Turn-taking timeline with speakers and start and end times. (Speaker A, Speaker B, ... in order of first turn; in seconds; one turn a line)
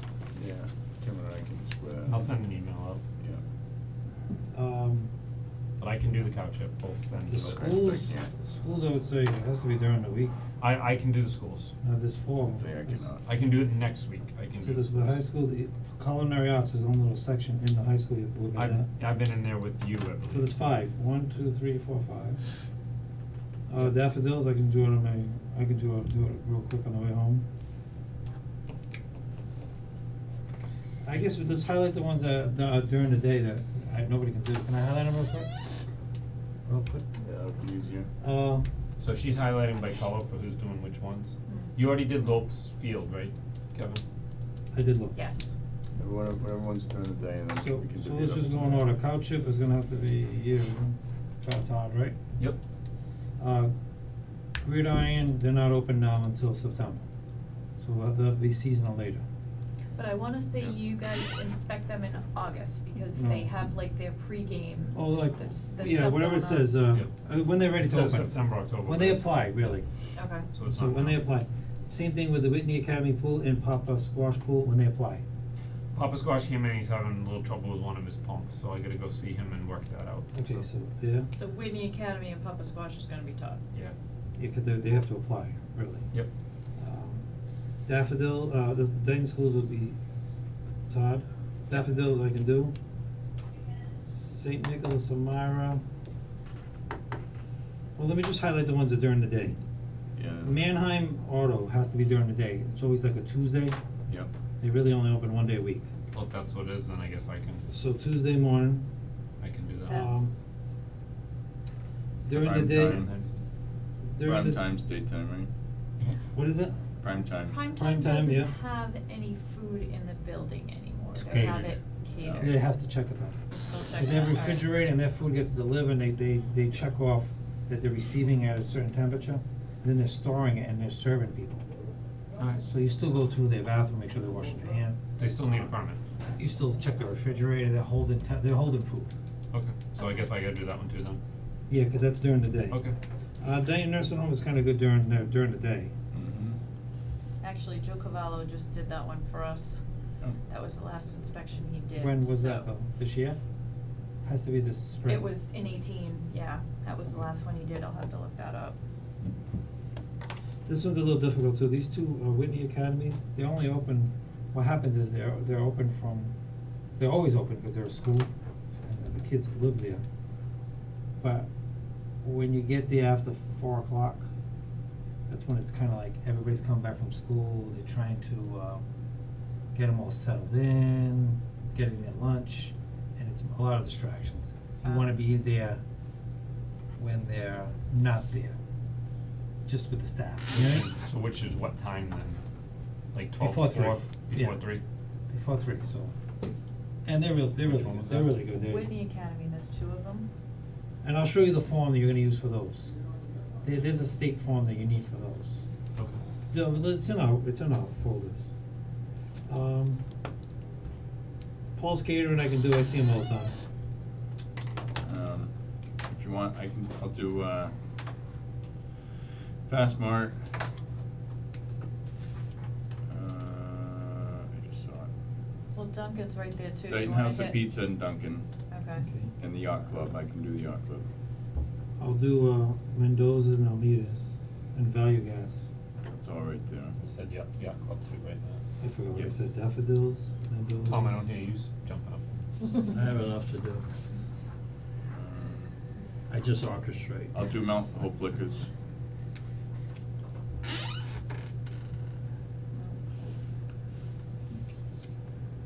Speaker A: 0.3-2.3
Speaker B: 2.0-3.0
Speaker C: 4.5-5.1
Speaker B: 5.8-7.9
Speaker C: 7.3-10.3
Speaker A: 7.7-8.3
Speaker B: 10.6-11.7
Speaker C: 11.8-13.0
Speaker A: 12.4-13.2
Speaker B: 13.2-15.2
Speaker C: 14.6-18.9
Speaker B: 18.5-20.6
Speaker C: 20.3-22.4
Speaker C: 23.7-27.4
Speaker C: 31.0-35.5
Speaker C: 36.7-37.0
Speaker A: 37.2-38.1
Speaker C: 38.2-38.6
Speaker B: 39.0-44.0
Speaker D: 41.5-41.7
Speaker C: 44.7-45.2
Speaker D: 45.1-45.4
Speaker A: 46.0-48.9
Speaker C: 47.5-52.1
Speaker C: 53.4-53.7
Speaker C: 54.6-57.0
Speaker C: 57.8-59.2
Speaker D: 60.0-66.8
Speaker C: 63.1-63.5
Speaker C: 64.9-69.8
Speaker B: 67.8-69.2
Speaker D: 70.2-70.5
Speaker B: 70.5-71.2
Speaker C: 70.7-75.2
Speaker B: 75.9-80.6
Speaker C: 80.3-81.3
Speaker D: 81.3-83.6
Speaker C: 84.4-86.0
Speaker C: 86.8-87.2
Speaker C: 87.8-90.0
Speaker C: 90.9-92.7
Speaker C: 94.0-95.8
Speaker C: 98.0-99.6
Speaker A: 100.1-100.7
Speaker C: 100.4-103.8
Speaker C: 104.6-105.9
Speaker B: 106.1-107.6
Speaker C: 107.7-108.8
Speaker B: 109.4-110.0
Speaker D: 109.9-110.3
Speaker C: 109.9-110.3
Speaker C: 112.2-113.0
Speaker A: 112.3-113.1
Speaker B: 113.0-113.3
Speaker C: 114.1-114.6
Speaker A: 114.2-115.5
Speaker C: 116.3-116.7
Speaker A: 117.0-117.6
Speaker D: 117.3-122.5
Speaker C: 117.7-118.5
Speaker B: 121.1-121.8
Speaker A: 122.2-122.6
Speaker C: 122.4-123.4
Speaker D: 123.5-124.7
Speaker C: 124.0-131.7
Speaker B: 132.4-132.6
Speaker C: 132.6-135.0
Speaker B: 135.2-136.0
Speaker C: 136.3-139.1
Speaker B: 139.5-141.2
Speaker D: 139.9-140.3
Speaker C: 141.7-142.8
Speaker C: 143.4-145.9
Speaker A: 146.1-146.6
Speaker D: 147.4-149.8
Speaker D: 150.5-152.7
Speaker C: 151.9-153.4
Speaker C: 154.2-155.2
Speaker D: 155.0-158.8
Speaker C: 160.7-166.3
Speaker C: 167.0-168.3
Speaker C: 168.8-170.0
Speaker C: 171.2-171.5
Speaker C: 172.2-174.2
Speaker C: 175.3-178.8
Speaker C: 179.7-185.8
Speaker D: 184.8-185.1
Speaker C: 187.0-188.6
Speaker C: 189.7-190.9
Speaker B: 190.5-192.4
Speaker B: 193.1-194.8
Speaker C: 193.4-194.6
Speaker C: 195.3-196.1
Speaker C: 197.0-198.9
Speaker B: 197.6-198.4
Speaker D: 198.5-200.3
Speaker C: 201.0-202.9
Speaker C: 203.6-205.6
Speaker B: 205.9-206.2
Speaker C: 206.5-208.4
Speaker C: 209.5-210.0
Speaker C: 211.8-213.5
Speaker A: 215.0-217.7
Speaker A: 219.6-220.4
Speaker A: 223.1-225.1
Speaker D: 225.7-227.6
Speaker A: 226.9-228.4
Speaker D: 228.7-229.1
Speaker C: 229.0-229.3
Speaker A: 229.4-231.1
Speaker C: 232.0-234.2
Speaker C: 234.7-235.6
Speaker A: 236.1-236.9
Speaker B: 237.0-238.6
Speaker C: 238.8-241.1
Speaker B: 240.8-242.4
Speaker C: 242.8-243.8
Speaker A: 245.1-245.7
Speaker C: 246.3-247.3
Speaker A: 247.3-248.7
Speaker D: 252.7-253.3